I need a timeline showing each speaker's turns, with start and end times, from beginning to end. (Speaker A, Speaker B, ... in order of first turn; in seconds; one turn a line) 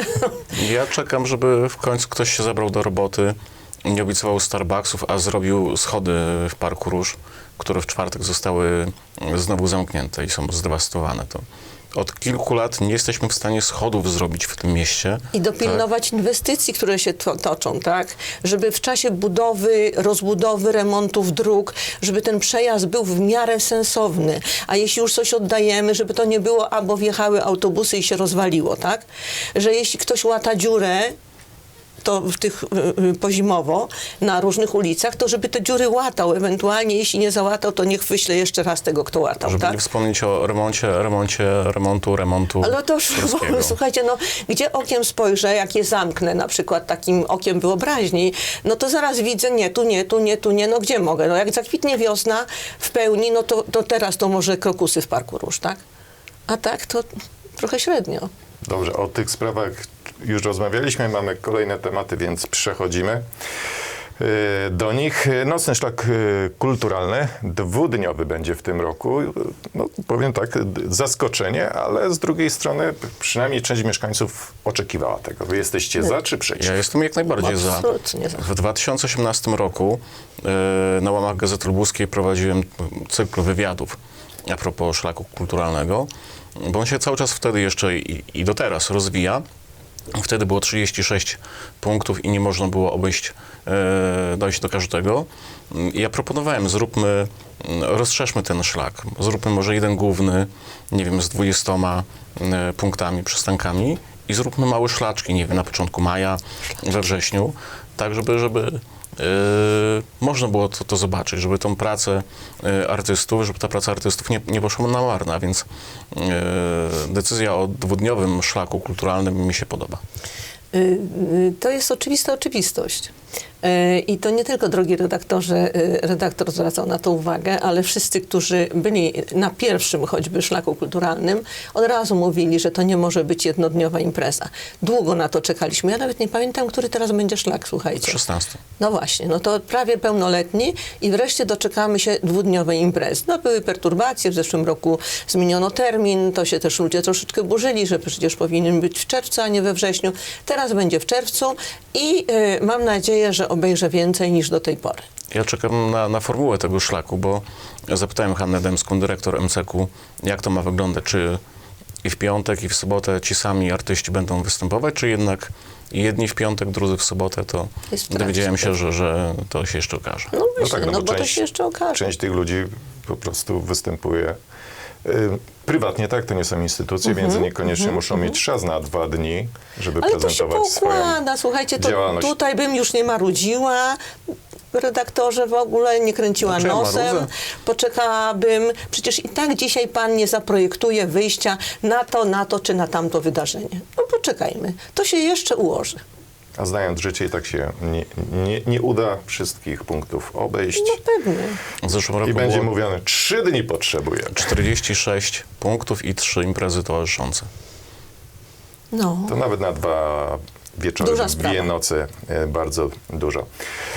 Speaker A: 0.5-15.8
Speaker B: 15.3-31.1
Speaker B: 32.0-39.8
Speaker A: 39.4-43.8
Speaker B: 42.6-55.8
Speaker B: 56.5-58.3
Speaker C: 58.6-63.2
Speaker C: 64.2-76.8
Speaker A: 76.6-89.4
Speaker B: 77.4-78.4
Speaker A: 90.1-120.0
Speaker B: 120.7-138.2
Speaker A: 138.0-138.6
Speaker B: 138.8-155.1
Speaker A: 155.3-161.4
Speaker A: 162.0-170.3
Speaker B: 167.9-168.7
Speaker B: 170.3-172.1
Speaker C: 170.6-171.4
Speaker C: 171.9-174.4
Speaker C: 175.0-181.2
Speaker B: 177.1-178.0
Speaker B: 180.0-184.0
Speaker C: 181.8-182.3
Speaker B: 184.7-196.0
Speaker A: 186.4-187.3
Speaker C: 196.6-201.0
Speaker B: 200.8-201.6
Speaker A: 201.8-202.7
Speaker C: 202.2-204.6
Speaker A: 204.3-207.5
Speaker B: 208.9-209.4
Speaker C: 209.3-213.5
Speaker B: 211.0-211.7